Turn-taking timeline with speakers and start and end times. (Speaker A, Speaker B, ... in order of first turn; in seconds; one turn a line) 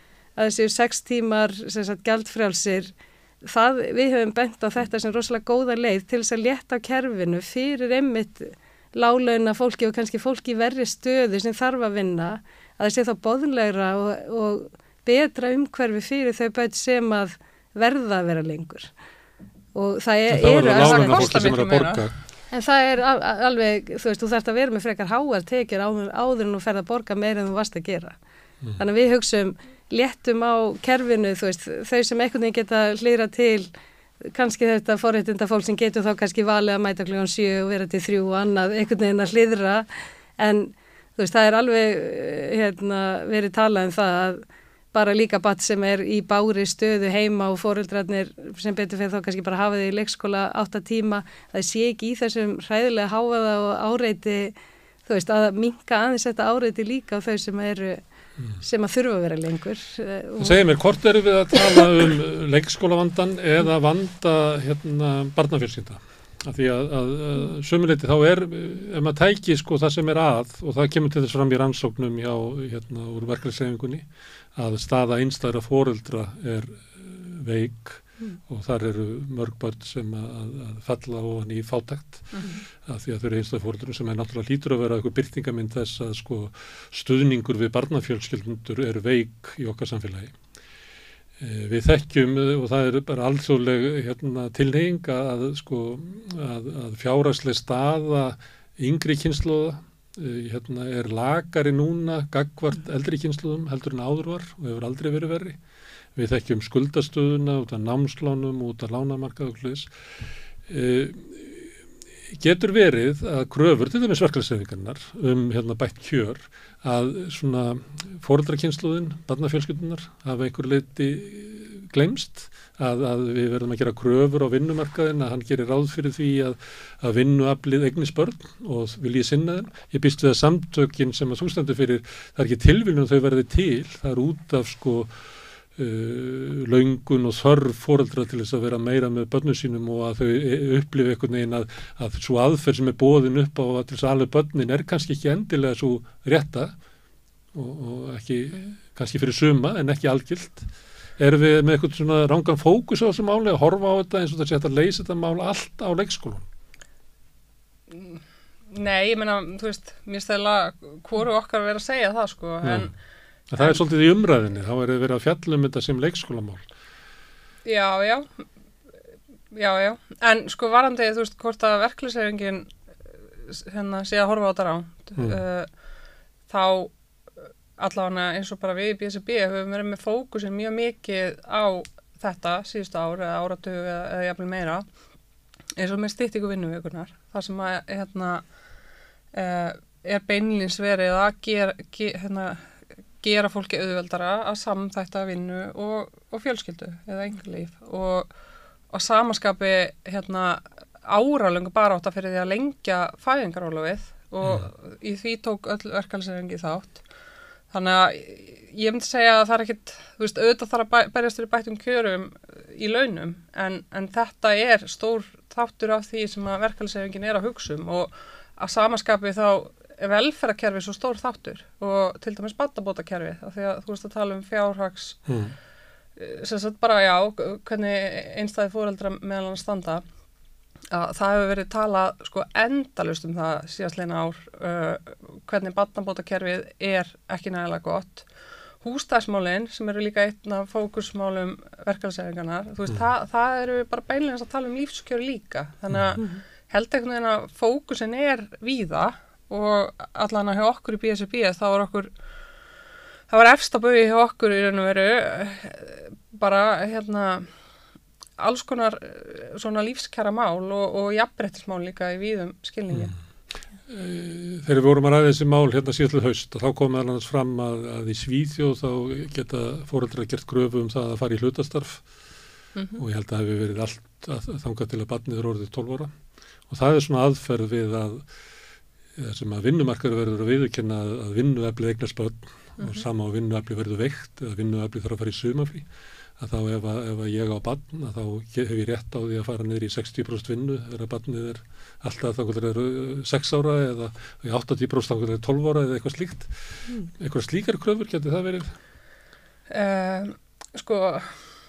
Speaker A: 0.4-18.9
Speaker A: 19.8-21.5
Speaker B: 20.3-22.1
Speaker C: 20.6-22.1
Speaker A: 22.5-28.2
Speaker A: 28.8-33.7
Speaker A: 34.2-39.9
Speaker A: 40.4-58.0
Speaker A: 58.6-60.6
Speaker B: 60.4-90.3
Speaker B: 91.4-105.6
Speaker B: 106.2-109.9
Speaker B: 110.7-111.7
Speaker B: 112.3-135.1
Speaker B: 135.8-146.7
Speaker B: 147.5-156.5
Speaker C: 157.9-162.9
Speaker B: 162.6-162.9
Speaker B: 163.5-166.7
Speaker C: 167.7-168.3
Speaker C: 169.5-172.7
Speaker C: 173.5-175.7
Speaker C: 176.5-176.9
Speaker C: 177.8-184.8
Speaker C: 185.8-188.4
Speaker C: 189.3-192.7
Speaker C: 193.2-198.3
Speaker C: 198.9-207.0
Speaker B: 204.4-204.7
Speaker C: 207.7-225.2
Speaker B: 225.3-225.5
Speaker C: 226.2-230.0
Speaker C: 230.9-238.3
Speaker C: 238.8-252.1
Speaker B: 245.9-246.2
Speaker C: 253.3-257.5
Speaker C: 258.4-263.1
Speaker B: 263.9-272.0
Speaker C: 272.8-273.0
Speaker B: 273.0-276.1
Speaker B: 276.7-278.3
Speaker B: 279.2-285.9
Speaker C: 282.8-283.1
Speaker B: 286.4-296.5
Speaker B: 297.1-298.7
Speaker C: 299.7-301.4